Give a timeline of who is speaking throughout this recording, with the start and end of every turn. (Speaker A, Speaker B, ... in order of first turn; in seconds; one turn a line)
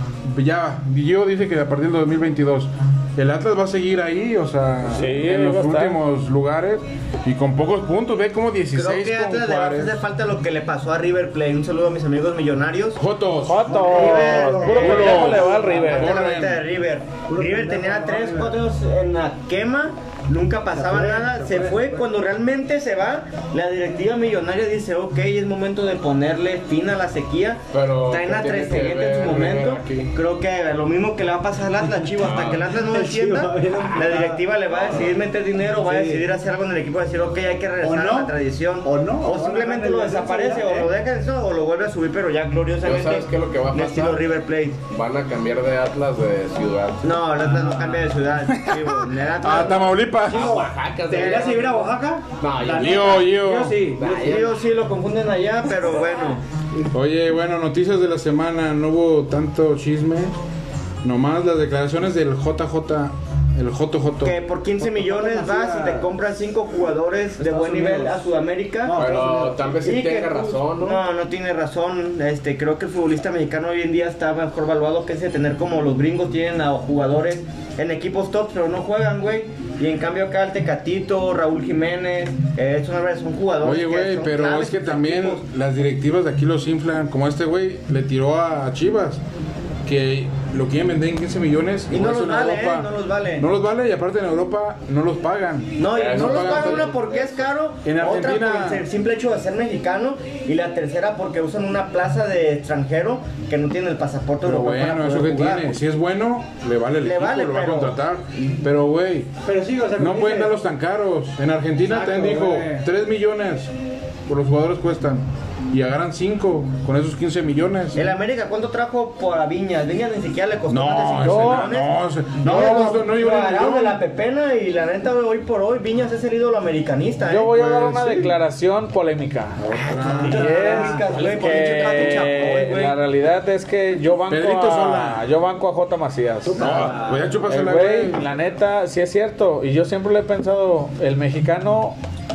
Speaker A: 0.2-10.0
Speaker B: 4.8-6.0
Speaker C: 8.7-13.0
Speaker A: 13.0-13.9
Speaker B: 13.4-16.1
Speaker D: 13.6-16.0
Speaker C: 13.9-44.8
Speaker A: 14.6-16.6
Speaker D: 17.3-18.6
Speaker D: 20.7-22.0
Speaker A: 27.7-28.4
Speaker E: 27.8-30.0
Speaker A: 29.1-30.1
Speaker D: 31.8-34.4
Speaker E: 32.2-32.7
Speaker E: 33.7-34.0
Speaker E: 34.7-35.2
Speaker D: 35.8-36.2
Speaker D: 37.8-40.9
Speaker E: 42.8-44.3
Speaker E: 44.9-47.0
Speaker C: 47.0-50.1
Speaker D: 47.2-48.0
Speaker A: 48.5-50.6
Speaker E: 50.3-53.3
Speaker D: 50.3-54.3
Speaker A: 52.7-53.8
Speaker E: 53.9-54.6
Speaker C: 54.2-56.4
Speaker A: 56.9-60.3
Speaker A: 61.0-64.4
Speaker C: 64.2-69.0
Speaker D: 64.8-66.1
Speaker D: 67.4-68.3
Speaker D: 68.8-69.8
Speaker E: 68.9-71.0
Speaker C: 69.8-85.4
Speaker A: 83.6-89.2
Speaker A: 89.8-96.9
Speaker C: 91.9-93.5
Speaker C: 95.8-105.8
Speaker E: 95.9-97.5
Speaker A: 97.8-98.8
Speaker A: 104.4-109.3
Speaker C: 107.0-108.0
Speaker D: 109.4-110.5
Speaker A: 110.0-113.7
Speaker D: 111.8-112.8
Speaker A: 114.3-118.1
Speaker C: 117.9-127.7
Speaker A: 120.7-124.0
Speaker B: 121.2-121.7
Speaker B: 127.3-129.6
Speaker A: 127.5-128.3
Speaker A: 129.6-130.4
Speaker C: 129.8-133.0
Speaker D: 130.1-131.2
Speaker B: 130.2-136.9
Speaker A: 134.3-135.2
Speaker D: 136.4-137.3
Speaker A: 136.6-138.3
Speaker B: 137.5-142.0